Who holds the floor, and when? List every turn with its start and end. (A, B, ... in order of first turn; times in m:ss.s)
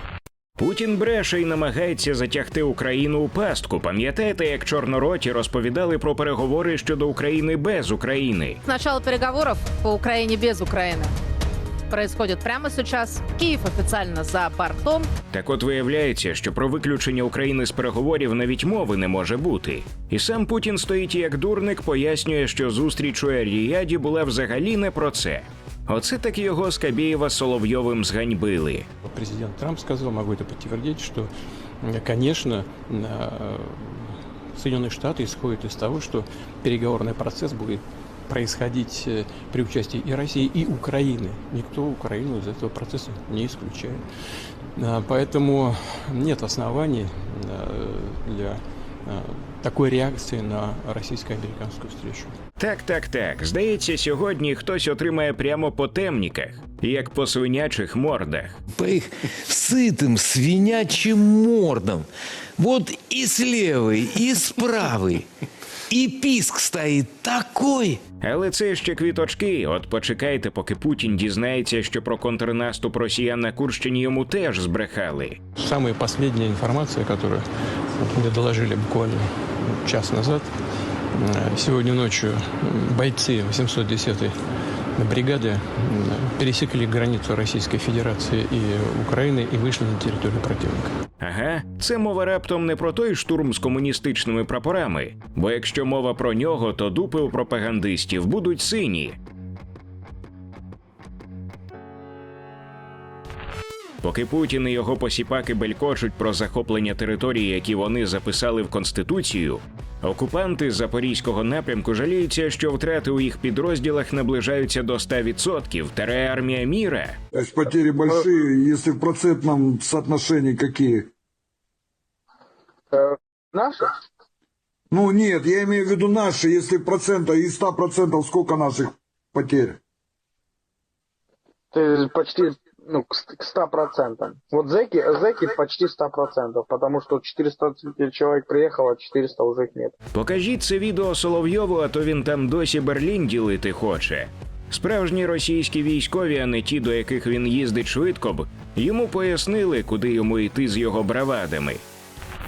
0:00.6-0:08.6 A
0:08.6-0:11.1 B
0:11.9-0:15.1 B
0:15.3-0:28.9 A
0:29.0-0:31.3 C
0:31.8-0:44.0 C
0:44.8-0:52.3 C
0:52.6-0:58.5 A
0:58.7-1:05.3 D
1:05.9-1:08.0 D
1:08.2-1:15.4 A
1:15.6-1:17.4 C
1:18.0-1:20.5 C
1:21.2-1:24.3 C
1:25.0-1:30.9 C
1:31.2-1:39.2 A
1:44.0-1:57.2 A
1:57.3-2:01.1 E
2:02.9-2:03.9 F
2:04.9-2:09.8 E
2:11.7-2:19.9 F
2:20.1-2:31.8 A